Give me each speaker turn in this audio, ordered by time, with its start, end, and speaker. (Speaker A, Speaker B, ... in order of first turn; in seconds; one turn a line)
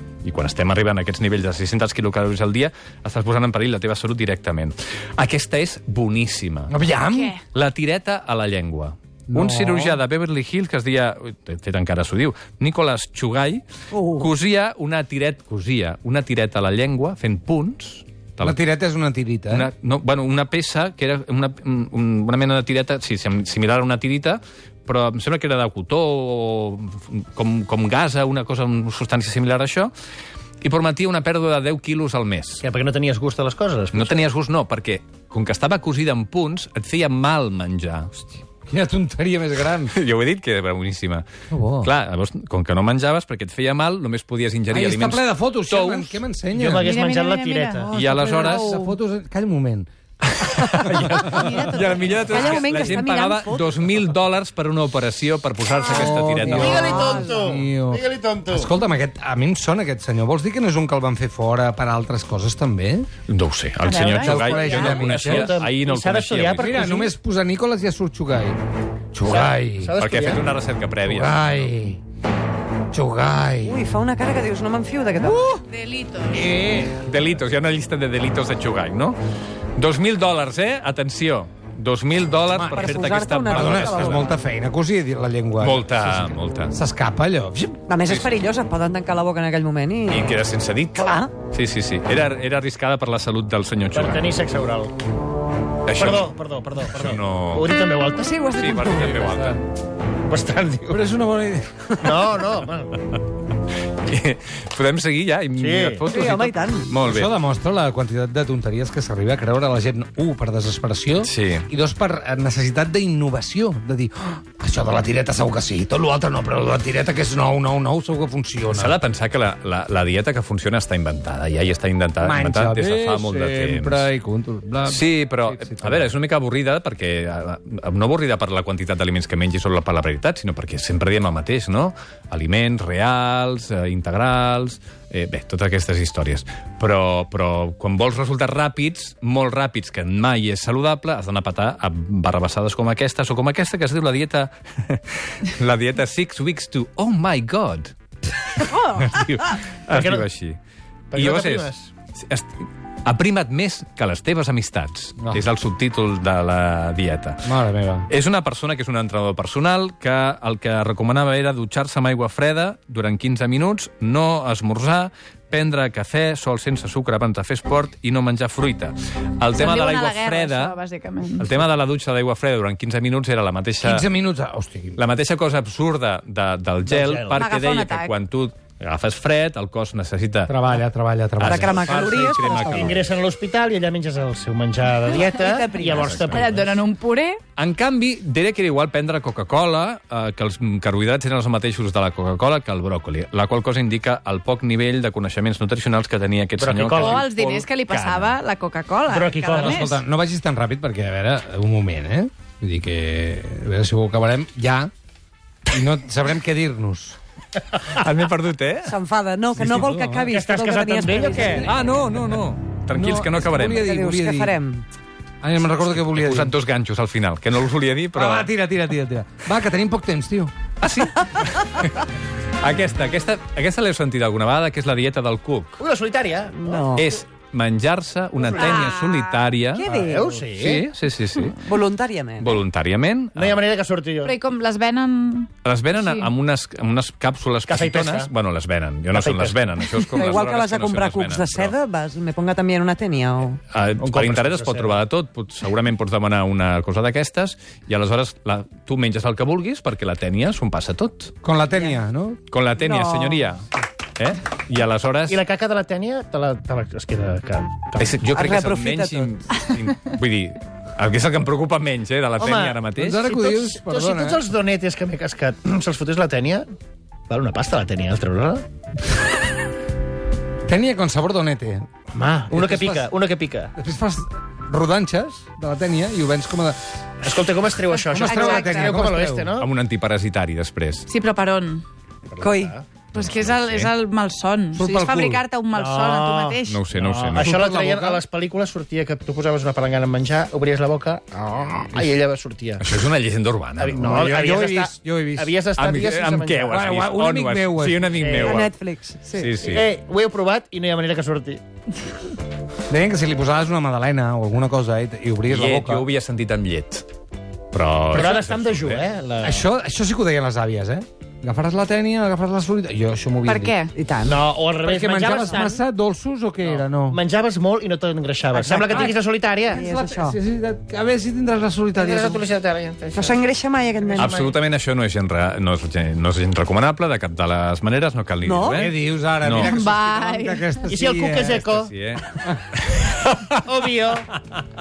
Speaker A: 0.2-6.7
Speaker B: 6.7-7.3
Speaker C: 7.1-7.4
Speaker A: 7.5-13.6
Speaker B: 9.3-10.0
Speaker D: 13.9-14.3
Speaker A: 14.2-18.6
Speaker B: 18.4-19.7
Speaker A: 19.5-29.9
Speaker A: 30.6-32.6
Speaker E: 32.6-34.3
Speaker A: 33.9-38.1
Speaker B: 38.7-39.9
Speaker A: 39.8-41.3
Speaker B: 41.5-41.9
Speaker A: 41.8-46.2
Speaker B: 44.7-46.9
Speaker E: 46.5-47.9
Speaker C: 46.8-48.9
Speaker B: 47.8-49.9
Speaker A: 47.9-48.6
Speaker A: 50.3-57.0
Speaker B: 50.9-51.5
Speaker C: 51.1-52.9
Speaker D: 52.2-53.7
Speaker B: 55.8-63.1
Speaker E: 56.4-58.7
Speaker D: 57.0-57.4
Speaker A: 63.3-66.8
Speaker C: 63.9-65.0
Speaker B: 64.0-65.5
Speaker E: 64.2-67.1
Speaker B: 66.5-68.6
Speaker B: 69.1-70.0
Speaker E: 69.2-70.5
Speaker A: 70.0-71.7
Speaker B: 71.0-72.0
Speaker B: 72.9-73.8
Speaker D: 73.6-75.5
Speaker B: 75.2-75.6
Speaker C: 75.7-76.5
Speaker B: 76.3-77.0
Speaker A: 77.0-79.2
Speaker A: 79.8-84.3
Speaker B: 82.5-87.8
Speaker D: 82.7-84.3
Speaker A: 85.6-86.7
Speaker D: 87.9-90.3
Speaker A: 90.1-94.3
Speaker D: 90.9-91.3
Speaker E: 93.9-94.9
Speaker A: 95.9-96.3
Speaker E: 95.9-98.3
Speaker A: 96.9-97.7
Speaker D: 98.2-99.5
Speaker A: 98.5-99.6
Speaker B: 99.2-99.6
Speaker E: 100.3-101.0
Speaker B: 100.9-102.1
Speaker E: 102.0-103.0
Speaker A: 104.0-107.3
Speaker E: 105.5-106.0
Speaker D: 106.1-106.9
Speaker B: 107.0-119.0
Speaker A: 111.2-111.7
Speaker A: 118.7-124.1
Speaker B: 122.2-126.1
Speaker A: 124.8-150.6
Speaker C: 148.6-149.1
Speaker E: 149.9-150.3
Speaker E: 151.1-151.9
Speaker A: 151.1-157.5
Speaker B: 157.4-158.1
Speaker A: 158.1-170.8
Speaker C: 169.5-171.5
Speaker A: 171.4-174.1
Speaker B: 173.8-175.0
Speaker A: 174.9-180.6
Speaker E: 176.8-177.4
Speaker C: 177.3-178.1
Speaker B: 180.5-182.0
Speaker A: 181.4-183.2
Speaker D: 181.4-182.9
Speaker E: 182.5-186.8
Speaker D: 185.1-186.2
Speaker A: 185.8-186.5
Speaker C: 186.3-187.4
Speaker A: 187.6-198.4
Speaker E: 196.6-197.2
Speaker C: 196.9-200.0
Speaker E: 199.1-199.9
Speaker B: 199.5-204.9
Speaker B: 205.7-207.2
Speaker A: 207.9-208.9
Speaker D: 208.8-211.7
Speaker B: 209.6-210.3
Speaker E: 210.3-211.7
Speaker B: 211.3-212.2
Speaker A: 211.6-213.9
Speaker B: 212.9-214.6
Speaker D: 213.7-214.8
Speaker B: 215.4-216.5
Speaker A: 215.6-218.5
Speaker B: 218.1-220.5
Speaker A: 220.8-222.1
Speaker A: 222.6-225.8
Speaker E: 225.8-227.1
Speaker D: 226.6-227.1
Speaker A: 226.9-229.8
Speaker C: 228.5-229.3
Speaker D: 229.7-230.3
Speaker E: 229.8-230.9
Speaker A: 230.5-231.7
Speaker D: 231.4-232.6
Speaker A: 232.4-233.6
Speaker E: 233.3-234.3
Speaker C: 234.2-236.3
Speaker A: 235.6-241.7
Speaker E: 237.6-238.3
Speaker E: 239.1-239.7
Speaker D: 240.1-243.6
Speaker A: 243.7-251.3
Speaker E: 244.0-245.0
Speaker B: 251.4-252.4
Speaker A: 252.5-253.6
Speaker D: 252.8-253.4
Speaker A: 254.2-255.4
Speaker E: 255.3-258.2
Speaker A: 258.0-263.2
Speaker D: 258.3-259.3
Speaker E: 262.4-266.7
Speaker B: 262.9-264.4
Speaker E: 267.3-268.6
Speaker B: 270.6-271.9
Speaker E: 272.1-273.7
Speaker B: 272.5-273.1
Speaker B: 273.8-276.8
Speaker E: 277.2-279.7
Speaker C: 277.9-279.0
Speaker B: 278.1-279.5
Speaker A: 279.6-281.1
Speaker C: 281.1-281.8
Speaker E: 282.3-282.8
Speaker D: 282.4-282.7
Speaker A: 283.1-283.9
Speaker C: 283.1-286.9
Speaker B: 284.7-285.4
Speaker E: 285.7-292.8
Speaker A: 286.7-287.6
Speaker B: 287.4-288.2
Speaker A: 292.8-294.0
Speaker E: 293.8-296.9
Speaker B: 293.9-295.5
Speaker A: 295.8-298.7
Speaker B: 296.7-298.1
Speaker E: 298.1-298.6
Speaker D: 298.4-299.5
Speaker A: 299.3-299.9
Speaker E: 299.6-301.6
Speaker B: 302.9-306.1
Speaker A: 305.5-307.1
Speaker A: 307.7-309.1
Speaker E: 308.1-309.6
Speaker B: 309.4-313.8
Speaker C: 313.4-313.9
Speaker D: 313.9-314.4
Speaker E: 314.2-315.8
Speaker B: 314.8-317.2
Speaker E: 316.6-319.8
Speaker B: 318.5-319.1
Speaker B: 319.7-322.4
Speaker D: 319.7-320.4
Speaker E: 321.9-323.4
Speaker D: 323.1-324.4
Speaker E: 324.1-324.5
Speaker A: 324.2-329.7
Speaker D: 328.4-328.9
Speaker B: 328.7-331.6
Speaker C: 329.6-330.9
Speaker E: 330.9-331.9
Speaker A: 331.4-333.5
Speaker E: 333.6-334.3